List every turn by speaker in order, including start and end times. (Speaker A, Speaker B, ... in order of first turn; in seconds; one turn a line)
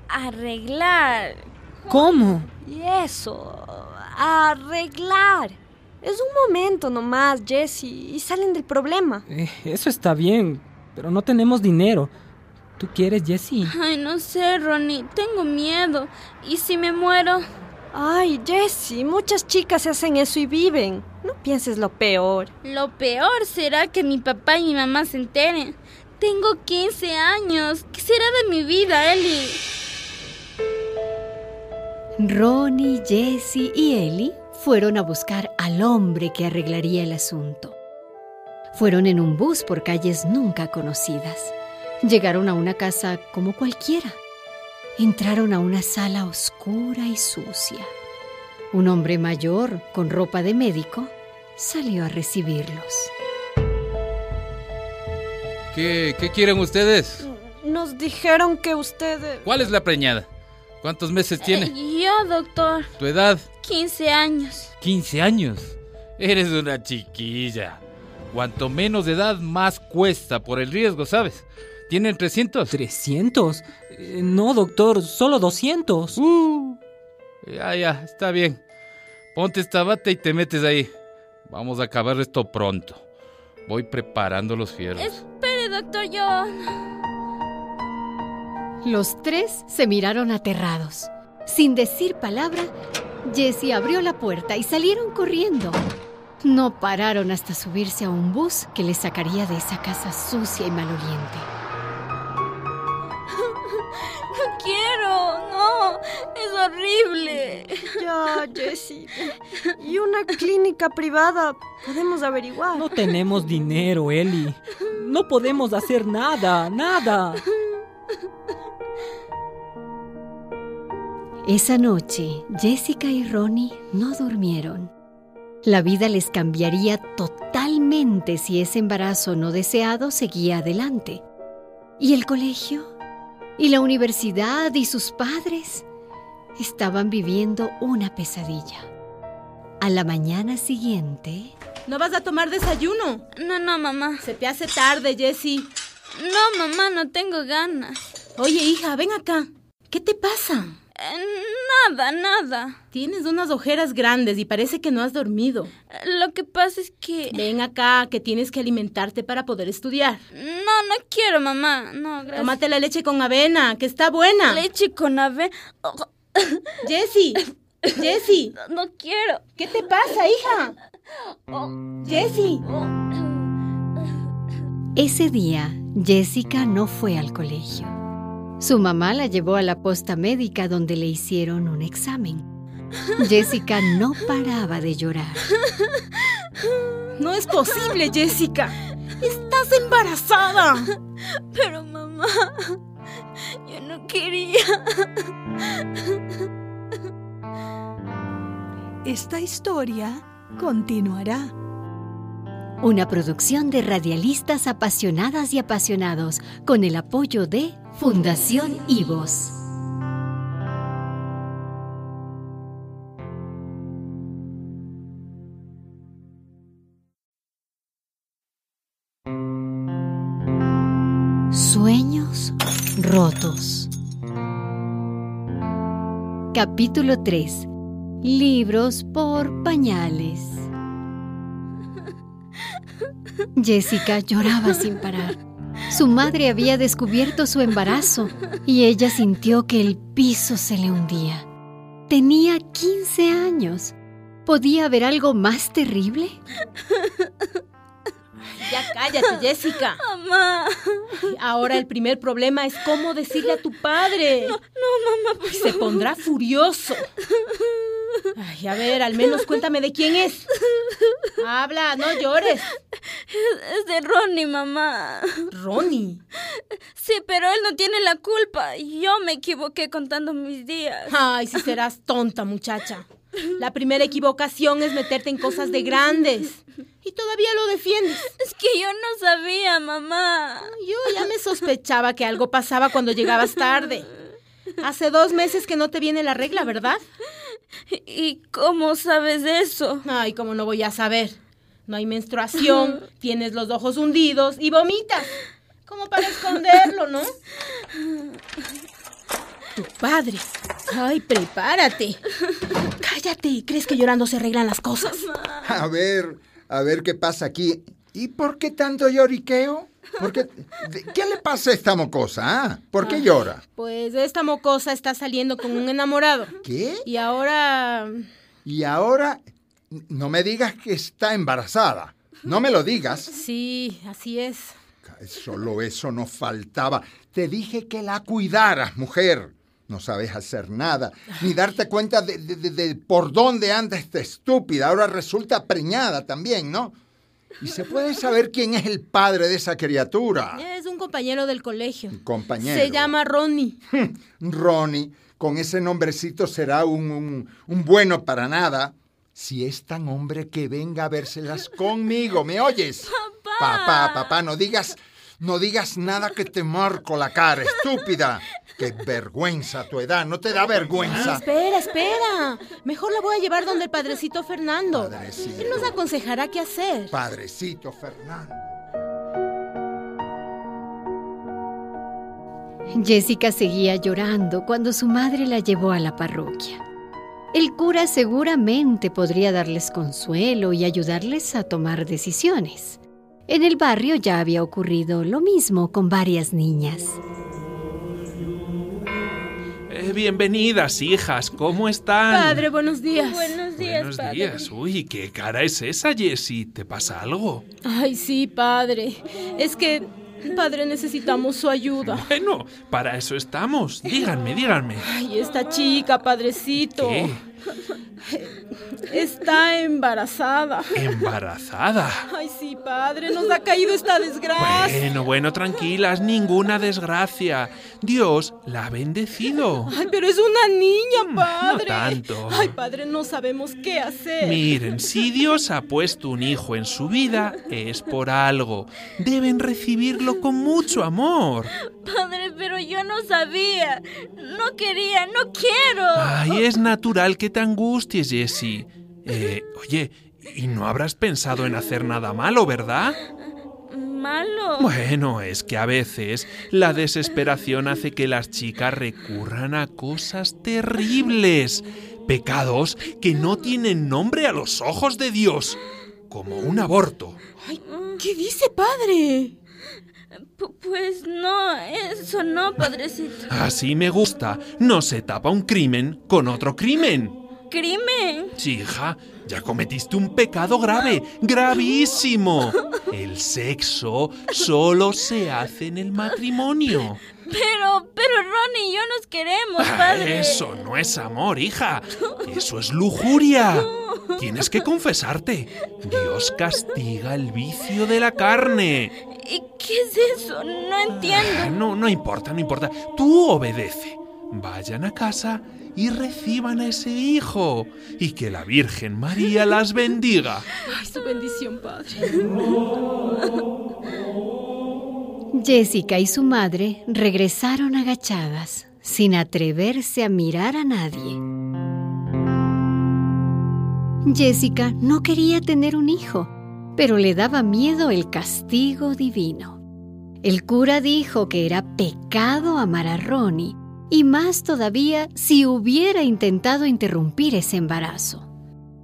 Speaker A: 0.1-2.1
Speaker B: 1.9-2.5
Speaker C: 2.5-9.2
Speaker B: 9.3-12.1
Speaker B: 12.8-13.7
Speaker A: 13.7-17.4
Speaker C: 17.9-22.5
Speaker A: 22.6-29.6
Speaker D: 32.2-37.8
Speaker D: 38.7-44.2
Speaker D: 45.0-47.9
Speaker D: 48.7-53.1
Speaker E: 55.7-57.2
Speaker C: 57.2-59.5
Speaker E: 59.4-60.2
Speaker E: 60.8-61.7
Speaker A: 61.4-62.9
Speaker E: 63.0-63.4
Speaker A: 63.6-64.7
Speaker E: 64.8-67.8
Speaker E: 68.3-72.7
Speaker B: 72.7-76.2
Speaker E: 76.2-76.8
Speaker E: 77.4-78.6
Speaker E: 79.3-80.9
Speaker E: 81.5-83.0
Speaker E: 83.7-85.2
Speaker A: 85.0-86.6
Speaker D: 88.8-92.7
Speaker D: 93.2-95.8
Speaker D: 96.4-101.5
Speaker A: 104.1-107.9
Speaker C: 107.8-112.9
Speaker B: 112.8-117.4
Speaker D: 121.4-124.9
Speaker D: 125.6-131.2
Speaker D: 132.0-132.9
Speaker D: 133.6-135.8
Speaker D: 136.6-138.9
Speaker D: 139.8-141.5
Speaker F: 141.9-143.2
Speaker A: 143.3-144.2
Speaker F: 144.2-145.7
Speaker A: 146.1-148.0
Speaker F: 148.4-150.8
Speaker A: 150.9-152.8
Speaker F: 152.9-155.7
Speaker A: 155.9-157.4
Speaker F: 157.3-160.2
Speaker A: 160.3-162.6
Speaker F: 162.3-164.6
Speaker A: 164.4-166.7
Speaker F: 166.8-168.5
Speaker A: 168.5-169.4
Speaker F: 169.6-170.8
Speaker A: 171.5-172.9
Speaker F: 172.0-172.6
Speaker D: 174.9-177.9
Speaker D: 178.6-182.4
Speaker D: 183.2-185.5
Speaker F: 187.2-190.9
Speaker A: 191.3-192.8
Speaker A: 193.6-195.2
Speaker A: 195.7-196.2
Speaker G: 199.0-201.5
Speaker D: 202.8-209.6
Speaker D: 221.5-223.9
Speaker D: 226.5-227.7
Speaker D: 228.2-230.7
Speaker D: 233.6-235.4
Speaker D: 235.9-241.4
Speaker D: 242.1-243.9
Speaker D: 244.4-246.4
Speaker A: 246.9-247.5
Speaker F: 248.5-250.0
Speaker A: 249.0-251.2
Speaker F: 251.2-254.6
Speaker A: 254.2-256.1
Speaker F: 255.5-257.1
Speaker A: 257.4-258.3
Speaker F: 258.4-260.5
Speaker F: 261.4-262.7
Speaker A: 263.2-265.5
Speaker F: 265.5-266.2
Speaker A: 266.9-271.1
Speaker F: 271.1-273.1
Speaker F: 273.6-278.3
Speaker A: 278.4-280.7
Speaker F: 280.6-284.1
Speaker F: 284.8-287.0
Speaker A: 287.9-290.0
Speaker F: 290.0-295.4
Speaker F: 295.9-297.3
Speaker F: 299.7-302.2
Speaker F: 303.0-305.3
Speaker H: 305.6-313.6
Speaker F: 313.8-316.5
Speaker H: 316.6-317.0
Speaker F: 317.1-318.2
Speaker H: 318.6-319.4
Speaker H: 319.9-323.3
Speaker F: 323.3-324.7
Speaker H: 325.1-336.9
Speaker H: 337.6-340.6
Speaker F: 340.5-343.8
Speaker H: 342.1-343.1
Speaker H: 343.9-361.4
Speaker A: 353.0-354.3
Speaker F: 361.0-367.1
Speaker H: 364.9-366.0
Speaker H: 367.1-368.8
Speaker D: 372.9-376.8
Speaker D: 377.5-387.2
Speaker I: 389.9-392.7
Speaker F: 392.3-393.6
Speaker A: 393.1-394.7
Speaker I: 393.7-397.6
Speaker F: 397.8-402.2
Speaker I: 402.0-405.0
Speaker F: 405.0-407.3
Speaker I: 406.8-407.4
Speaker F: 408.3-411.0
Speaker I: 410.9-412.2
Speaker F: 412.3-415.0
Speaker I: 414.6-419.9
Speaker F: 419.9-424.7
Speaker I: 421.2-422.8
Speaker I: 424.4-431.7
Speaker A: 432.0-436.6
Speaker I: 436.1-443.2
Speaker A: 443.9-444.9
Speaker I: 444.8-455.8
Speaker I: 456.3-457.4
Speaker F: 457.6-459.5
Speaker A: 457.9-458.2
Speaker A: 460.6-463.5
Speaker I: 463.5-467.4
Speaker A: 467.7-468.5
Speaker I: 468.6-477.2
Speaker A: 477.5-480.6
Speaker I: 479.8-489.1
Speaker A: 483.8-484.4
Speaker A: 489.3-491.7
Speaker I: 491.2-500.7
Speaker F: 500.8-502.6
Speaker D: 505.5-511.4
Speaker D: 514.2-519.8
Speaker D: 520.4-528.5